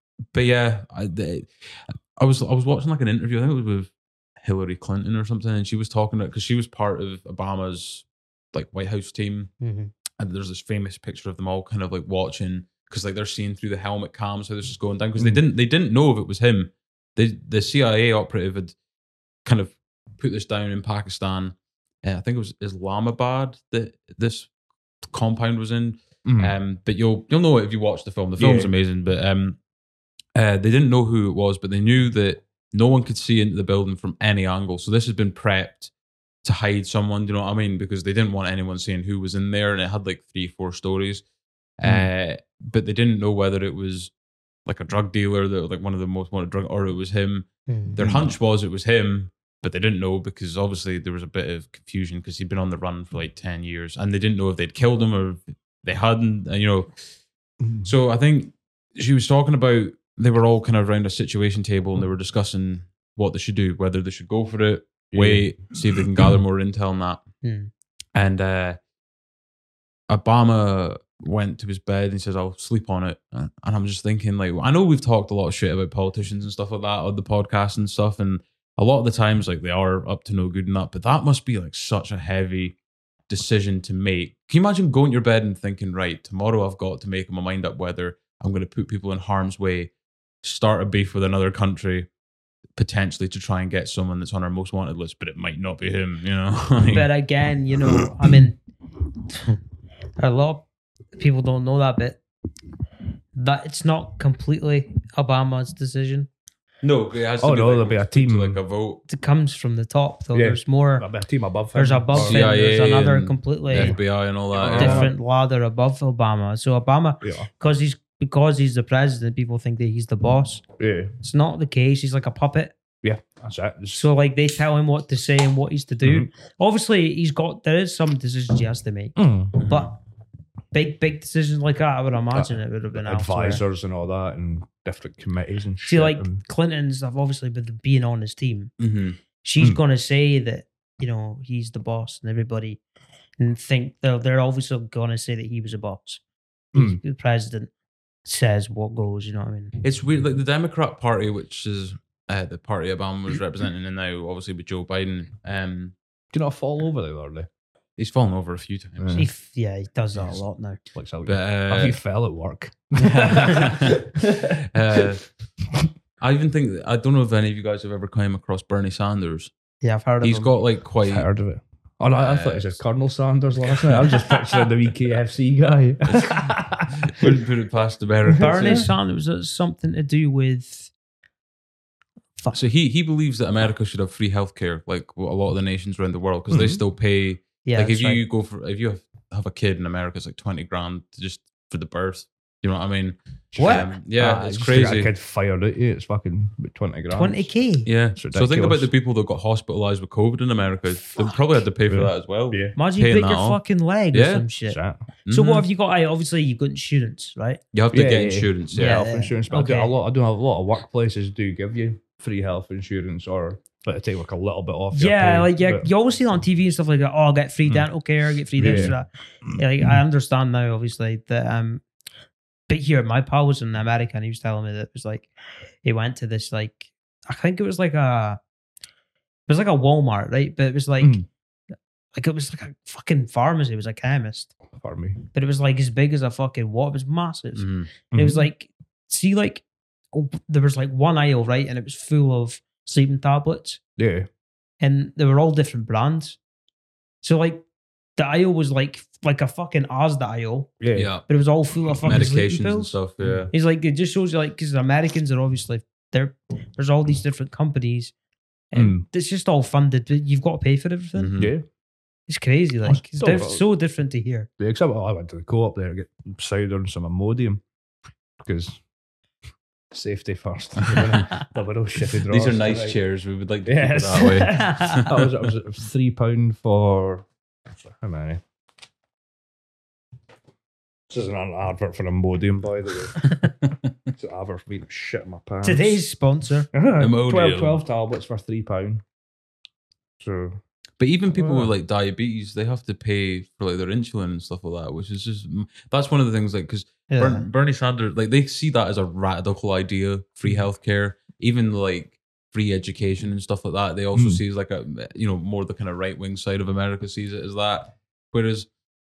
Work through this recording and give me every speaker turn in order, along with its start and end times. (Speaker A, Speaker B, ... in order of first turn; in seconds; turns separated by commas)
Speaker A: 0.3-9.5, Speaker B: 9.6-9.9, Speaker A: 10.2-18.7, Speaker A: 19.4-24.5, Speaker A: 25.1-29.6, Speaker C: 26.2-26.5, Speaker C: 28.4-28.7, Speaker A: 30.4-35.9, Speaker A: 36.4-41.2, Speaker A: 41.8-44.1, Speaker C: 41.8-42.1, Speaker A: 44.6-56.9, Speaker B: 47.7-48.0, Speaker C: 48.0-48.4, Speaker C: 57.6-57.9, Speaker A: 57.8-67.2, Speaker C: 65.1-66.3, Speaker B: 67.4-67.7, Speaker A: 68.1-68.8, Speaker A: 70.1-82.8, Speaker A: 83.3-89.9, Speaker A: 90.4-92.1, Speaker A: 92.8-97.0, Speaker B: 96.9-98.6, Speaker B: 99.3-99.6, Speaker B: 100.2-102.2, Speaker B: 103.3-106.3, Speaker A: 106.8-109.0, Speaker C: 107.4-108.6, Speaker B: 109.1-111.1, Speaker C: 110.3-112.4, Speaker B: 111.7-114.0, Speaker A: 112.1-115.1, Speaker C: 113.7-114.0, Speaker C: 114.5-115.1, Speaker B: 114.7-120.6, Speaker C: 117.2-117.5, Speaker C: 120.8-121.1, Speaker B: 121.2-122.7, Speaker C: 123.0-124.0, Speaker B: 123.9-129.9, Speaker C: 126.0-126.3, Speaker C: 129.2-129.6, Speaker B: 130.7-133.6, Speaker C: 132.3-136.4, Speaker B: 135.8-138.7, Speaker A: 138.8-139.2, Speaker B: 139.4-142.8, Speaker B: 143.4-146.2, Speaker C: 146.7-147.0, Speaker B: 146.7-147.7, Speaker B: 148.2-149.7, Speaker A: 149.8-155.9, Speaker C: 156.3-157.5, Speaker A: 158.0-159.3, Speaker C: 159.0-159.3, Speaker B: 159.1-160.8, Speaker C: 160.9-165.1, Speaker A: 161.2-162.0, Speaker A: 163.0-165.3, Speaker A: 166.2-169.5, Speaker B: 169.8-170.5, Speaker A: 170.2-171.3, Speaker C: 171.0-177.4, Speaker A: 172.2-172.8, Speaker A: 173.7-174.3, Speaker A: 176.1-178.9, Speaker C: 178.3-178.9, Speaker B: 178.4-180.9, Speaker A: 182.5-195.1, Speaker C: 186.5-186.8, Speaker B: 187.6-188.2, Speaker C: 193.5-197.5, Speaker B: 193.6-193.9, Speaker B: 197.1-197.9, Speaker A: 197.8-203.6, Speaker C: 198.1-198.9, Speaker B: 201.1-201.4, Speaker C: 201.9-202.8, Speaker B: 202.8-207.6, Speaker A: 204.1-204.4, Speaker C: 204.7-205.0, Speaker A: 205.2-205.7, Speaker A: 207.7-209.0, Speaker C: 207.9-215.9, Speaker B: 208.7-209.9, Speaker B: 214.9-221.8, Speaker C: 218.6-218.9, Speaker B: 222.7-225.3, Speaker B: 225.8-228.4, Speaker B: 229.5-231.2, Speaker C: 231.0-231.2, Speaker B: 232.1-234.5, Speaker C: 234.7-235.2, Speaker B: 235.3-243.8, Speaker A: 237.5-237.9, Speaker C: 238.1-238.5, Speaker C: 244.0-244.3, Speaker B: 244.8-246.4, Speaker B: 247.2-247.6, Speaker B: 248.2-250.7, Speaker C: 250.8-251.1, Speaker A: 250.9-251.3, Speaker B: 251.3-252.9, Speaker A: 252.0-253.5, Speaker C: 253.2-253.4, Speaker B: 253.5-258.1, Speaker B: 258.7-261.3, Speaker C: 258.7-259.1, Speaker A: 261.1-261.5, Speaker C: 261.4-261.6, Speaker B: 262.3-264.5, Speaker C: 262.8-263.6, Speaker C: 264.6-267.6, Speaker C: 268.4-268.8, Speaker C: 269.9-273.0, Speaker A: 270.8-271.3, Speaker A: 272.3-275.3, Speaker C: 273.6-278.4, Speaker B: 274.5-275.0, Speaker C: 281.1-283.3, Speaker C: 284.1-286.0, Speaker B: 285.6-286.7, Speaker C: 286.7-289.0, Speaker A: 287.0-287.8, Speaker C: 290.2-290.6, Speaker A: 291.0-308.7, Speaker C: 291.3-291.7, Speaker B: 297.1-297.4, Speaker C: 304.1-304.4